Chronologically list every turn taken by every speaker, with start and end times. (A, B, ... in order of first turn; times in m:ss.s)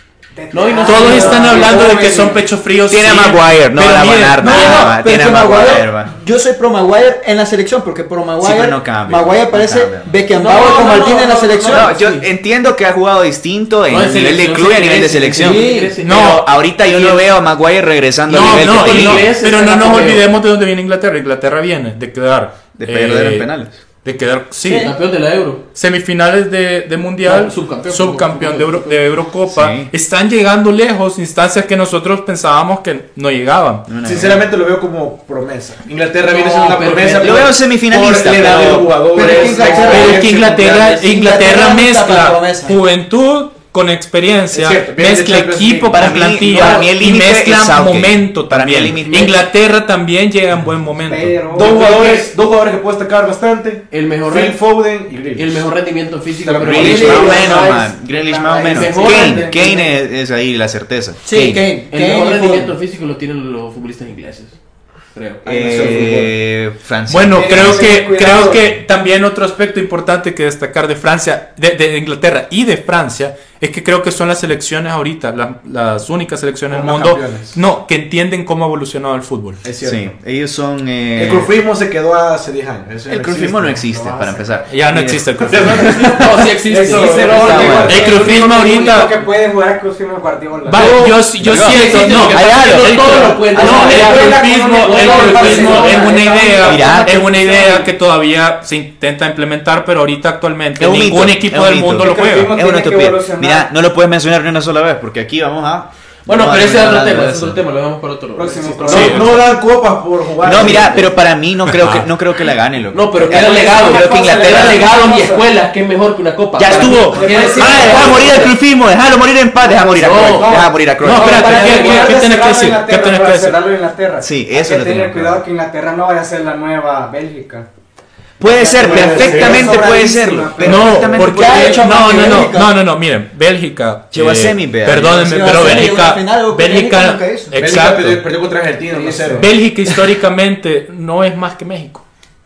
0:00.3-0:02.4 A
0:00.5-0:02.2 B
0:00.8-0:04.9 C
0:02.8-0:06.1 D
0:04.4-0:11.9 E
0:08.4-0:10.3 D
0:10.3-0:12.3 B
0:11.7-0:19.3 D
0:13.9-0:17.3 B
0:15.4-0:16.0 E
0:16.0-0:16.5 C
0:18.3-0:20.3 B
0:18.3-0:23.5 C
0:22.8-0:23.8 D
0:24.0-0:24.9 C
0:24.6-0:25.6 B
0:25.7-0:33.9 C
0:27.2-0:29.0 B
0:29.5-0:29.9 D
0:33.9-0:34.4 D
0:34.0-0:41.0 F
0:36.3-0:37.6 B
0:37.2-0:39.0 D
0:39.1-0:40.3 E
0:39.5-0:40.0 B
0:39.8-0:51.4 C
0:41.0-0:42.8 E
0:44.5-0:46.7 F
0:45.9-0:49.4 D
0:46.4-0:46.8 B
0:51.0-0:51.8 A
0:51.5-0:55.6 F
0:51.6-0:52.3 B
0:53.9-0:54.6 B
0:55.3-0:57.9 B
0:56.4-0:57.5 F
0:56.6-1:01.7 D
0:56.8-0:59.8 A
0:57.3-0:57.7 E
0:58.6-0:59.9 B
1:01.3-1:02.7 E
1:01.3-1:04.6 B
1:05.1-1:06.1 B
1:05.4-1:06.4 F
1:05.4-1:08.8 D
1:07.1-1:19.6 C
1:07.3-1:08.6 A
1:16.7-1:17.6 F
1:19.6-1:20.1 F
1:19.8-1:21.5 D
1:21.1-1:23.9 F
1:23.1-1:26.0 D
1:23.9-1:24.3 A
1:24.7-1:26.5 C
1:25.5-1:27.9 F
1:26.1-1:29.0 B
1:26.8-1:30.8 A
1:27.4-1:28.1 D
1:27.8-1:29.1 C
1:30.7-1:36.4 B
1:30.7-1:42.5 C
1:31.4-1:34.1 D
1:33.6-1:37.9 A
1:36.6-1:37.2 D
1:40.8-1:47.6 D
1:42.0-1:43.7 A
1:46.2-1:49.4 B
1:48.3-1:49.4 A
1:48.8-1:51.2 F
1:48.9-1:49.2 C
1:50.4-1:54.9 D
1:51.7-1:52.0 C
1:52.9-1:58.5 B
1:53.2-1:55.4 A
1:56.6-2:01.9 D
1:56.7-1:58.5 A
1:59.6-2:07.7 A
1:59.9-2:00.7 B
2:01.0-2:03.6 C
2:01.6-2:02.1 B
2:04.2-2:05.4 D
2:08.4-2:12.4 D
2:08.4-2:11.2 A
2:08.8-2:09.8 F
2:10.6-2:18.2 C
2:11.2-2:12.7 E
2:14.1-2:15.9 D
2:15.3-2:17.6 E
2:17.6-2:19.5 F
2:18.9-2:19.5 A
2:19.4-2:22.0 C